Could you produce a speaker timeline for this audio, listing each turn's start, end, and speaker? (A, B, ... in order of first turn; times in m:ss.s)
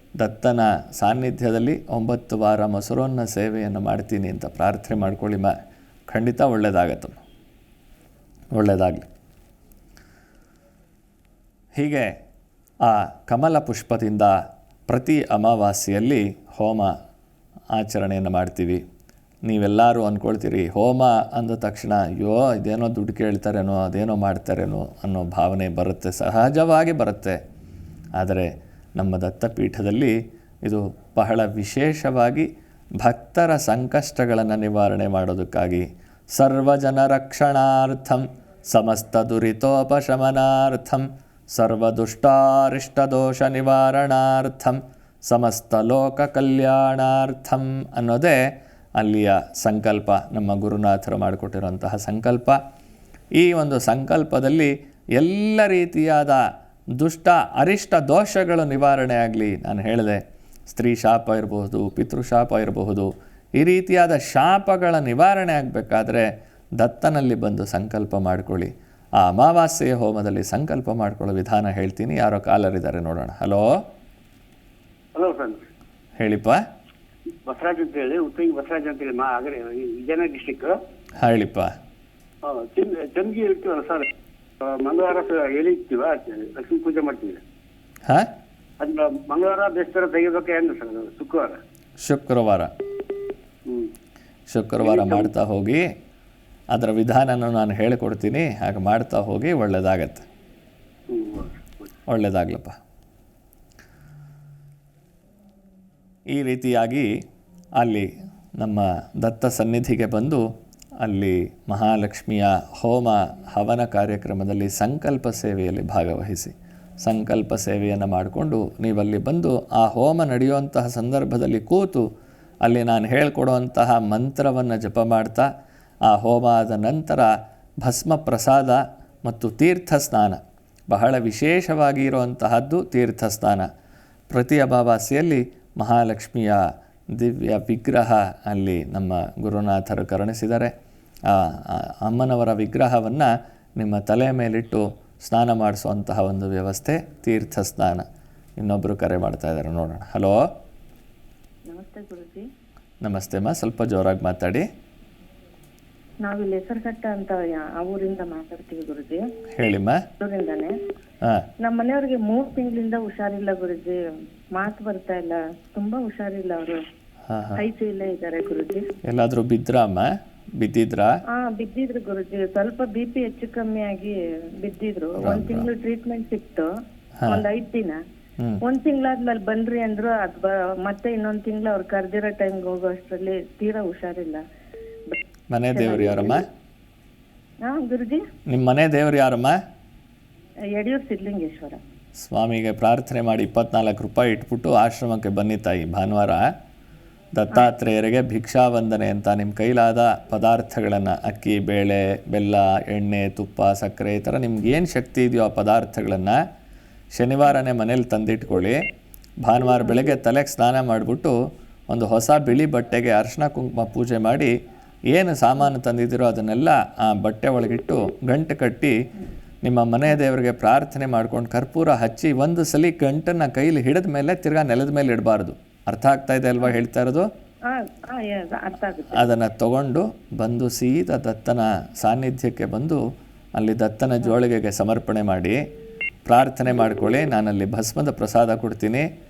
0:00.2-0:05.5 A
0:06.1-0:07.2 A
0:08.5-0:09.1 A
0:11.7-0:12.1 A
0:12.8-0:14.4 A
0:14.9-0:16.9 A
0:17.7-0:18.8 A
0:19.4-0:27.4 A
0:28.2-0:32.5 A
0:33.0-0:48.4 A
0:49.0-0:52.6 A
0:53.3-1:13.7 A
1:15.1-1:15.6 B
1:16.2-1:16.6 A
1:17.4-1:20.8 B
1:21.2-1:21.7 A
1:22.4-1:24.1 B
1:24.6-1:27.4 B
1:28.8-1:31.6 B
1:32.0-1:32.7 A
1:33.6-1:33.9 B
1:34.5-1:35.8 A
1:34.8-1:35.3 B
1:36.7-1:40.2 A
1:41.1-1:41.9 B
1:42.1-1:42.8 A
1:46.3-1:47.1 A
1:47.8-1:50.5 A
1:51.0-2:02.1 A
2:02.6-2:05.5 A
2:06.1-2:13.7 A
2:14.3-2:20.7 A
2:21.3-2:28.0 A
2:28.6-2:30.5 A
2:31.7-2:32.4 C
2:33.0-2:34.7 A
2:36.2-2:39.3 C
2:39.5-2:40.0 A
2:40.2-2:40.8 C
2:41.6-2:44.0 C
2:44.5-2:46.8 C
2:47.3-2:47.6 A
2:47.6-2:48.9 C
2:49.0-2:51.2 A
2:51.3-2:56.7 C
2:55.2-2:55.7 A
2:57.3-2:58.0 C
2:58.6-3:04.4 C
3:05.5-3:06.4 A
3:05.7-3:06.4 C
3:07.6-3:08.3 C
3:08.5-3:09.6 A
3:10.7-3:11.8 C
3:12.2-3:16.5 A
3:17.3-3:26.4 A
3:27.1-3:28.8 A
3:29.4-3:31.4 A
3:31.9-3:34.5 A
3:35.1-3:39.0 A
3:39.6-3:47.3 A
3:47.6-3:49.3 C
3:49.1-3:53.0 A
3:53.6-3:55.6 A
3:56.2-3:59.1 A